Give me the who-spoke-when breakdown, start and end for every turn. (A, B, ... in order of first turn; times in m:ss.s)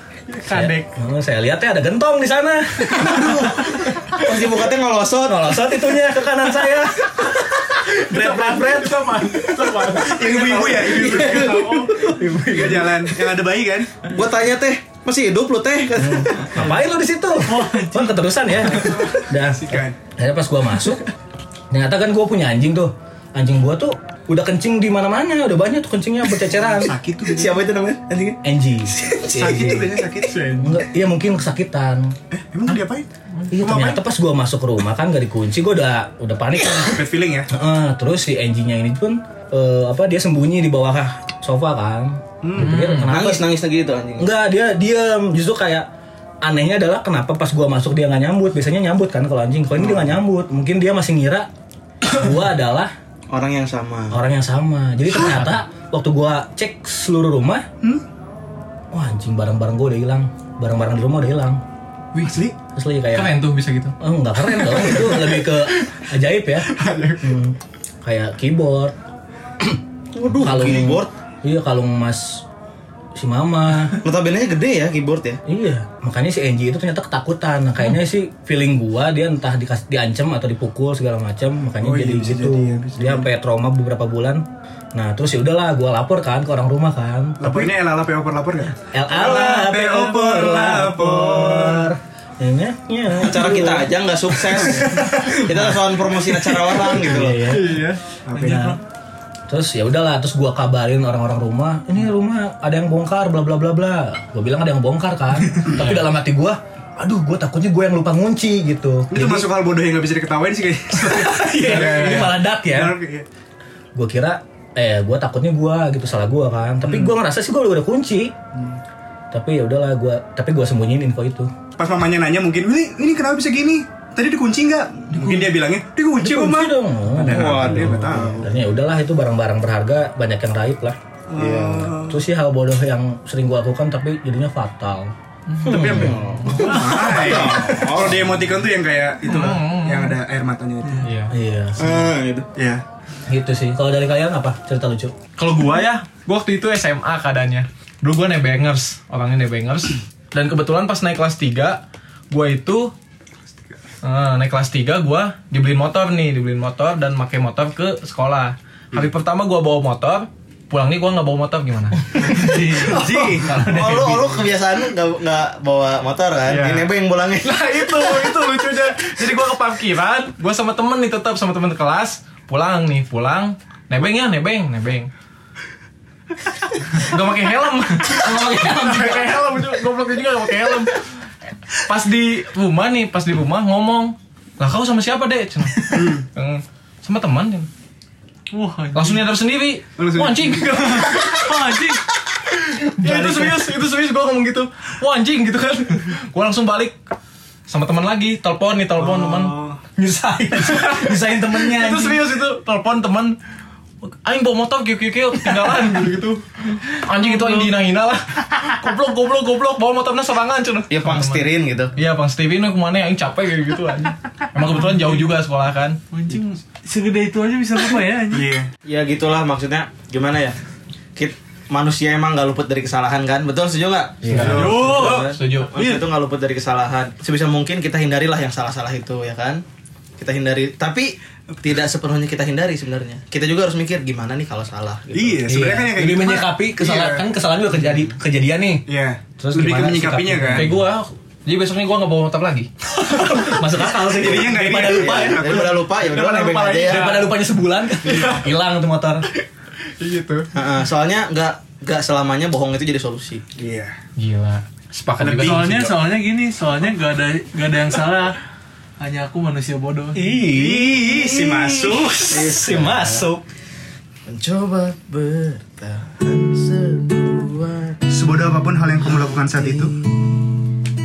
0:00.3-0:00.9 A
0:00.4-0:03.9 B
0:03.0-0:03.3 C
0:03.0-0:05.6 D
0:05.3-0:10.0 B
0:08.1-0:11.8 A
0:10.0-0:14.0 C
0:10.9-0:13.0 B
0:11.3-0:11.7 D
0:14.0-0:16.7 D
0:16.0-0:21.1 B
0:17.4-0:18.3 E
0:18.9-0:20.0 C
0:21.7-0:26.9 B
0:26.8-0:27.6 C
0:27.2-0:28.4 D
0:28.4-0:29.9 B
0:29.3-0:30.7 C
0:30.3-0:30.8 A
0:30.5-0:32.1 B
0:32.3-0:34.0 C
0:33.5-0:43.4 B
0:36.8-0:37.5 C
0:42.4-0:42.8 C
0:42.6-0:43.1 A
0:43.1-0:44.3 D
0:44.2-0:45.9 B
0:46.4-0:51.5 B
0:52.0-0:52.9 B
0:53.3-0:54.2 D
0:54.1-0:57.6 B
0:55.3-0:55.6 A
0:58.9-1:01.6 B
1:02.1-1:02.5 A
1:02.2-1:02.6 C
1:02.7-1:03.4 B
1:03.1-1:03.9 A
1:04.0-1:06.7 B
1:04.7-1:05.4 C
1:06.7-1:07.4 C
1:07.2-1:08.9 B
1:10.1-1:11.1 D
1:10.3-1:12.4 B
1:13.2-1:14.0 B
1:14.0-1:15.4 D
1:15.4-1:24.4 B
1:21.8-1:23.3 C
1:24.9-1:27.7 B
1:27.4-1:31.9 C
1:28.8-1:33.9 B
1:33.2-1:37.5 D
1:34.4-1:38.8 B
1:37.5-1:38.0 A
1:38.3-1:38.7 C
1:38.3-1:38.8 E
1:39.5-1:49.5 B
1:45.8-1:46.0 A
1:49.1-1:53.3 C
1:51.0-1:53.0 B
1:53.9-1:58.3 B
1:56.8-1:57.1 C
1:58.5-1:58.8 C
1:59.3-2:01.5 B
2:01.8-2:08.4 C
2:05.1-2:05.5 B
2:06.2-2:11.0 B
2:07.3-2:08.5 D
2:11.3-2:12.1 C
2:11.4-2:12.1 D
2:12.0-2:16.7 B
2:15.5-2:16.8 A
2:15.6-2:21.1 C
2:15.7-2:18.2 D
2:19.2-2:20.2 A
2:21.0-2:21.3 A
2:21.3-2:22.0 B
2:21.8-2:22.5 D
2:22.6-2:22.8 C
2:23.3-2:25.2 B
2:25.4-2:32.9 A
2:34.0-2:42.4 A
2:42.2-2:43.6 C
2:42.3-2:47.7 D
2:43.4-2:44.4 A
2:46.5-2:55.1 A
2:56.8-3:01.0 A
2:58.3-2:59.2 B
3:01.8-3:07.7 A
3:05.9-3:06.2 C
3:08.5-3:09.2 E
3:08.9-3:11.7 A
3:10.0-3:11.3 C
3:11.4-3:12.0 E
3:12.5-3:17.0 A
3:13.1-3:13.4 B
3:17.7-3:19.6 A
3:19.0-3:19.8 C
3:20.0-3:22.2 B
3:20.6-3:23.4 A
3:24.0-3:36.0 A
3:30.9-3:31.9 D
3:36.1-3:38.5 E
3:38.3-3:38.7 C
3:38.8-3:40.6 D
3:41.2-3:49.6 D
3:44.2-3:44.6 B
3:44.2-3:45.9 A
3:44.3-3:45.2 C
3:44.6-3:45.2 E
3:50.2-3:55.5 D
3:55.1-3:57.3 C
3:55.4-3:58.8 B
3:58.8-4:00.7 C
3:59.4-4:00.8 B
4:00.5-4:02.7 A
4:02.9-4:05.6 B
4:04.0-4:06.0 C
4:04.8-4:07.2 D
4:06.0-4:07.3 A
4:06.8-4:09.3 B
4:08.0-4:08.5 A
4:10.0-4:10.5 A
4:10.5-4:13.4 D
4:13.6-4:14.0 C
4:14.2-4:15.8 A
4:15.2-4:16.1 C
4:15.4-4:18.4 E
4:19.0-4:20.2 E
4:20.1-4:23.4 B
4:20.4-4:22.5 C
4:22.3-4:23.3 D
4:24.3-4:28.0 D
4:28.1-4:29.9 C
4:29.0-4:30.7 D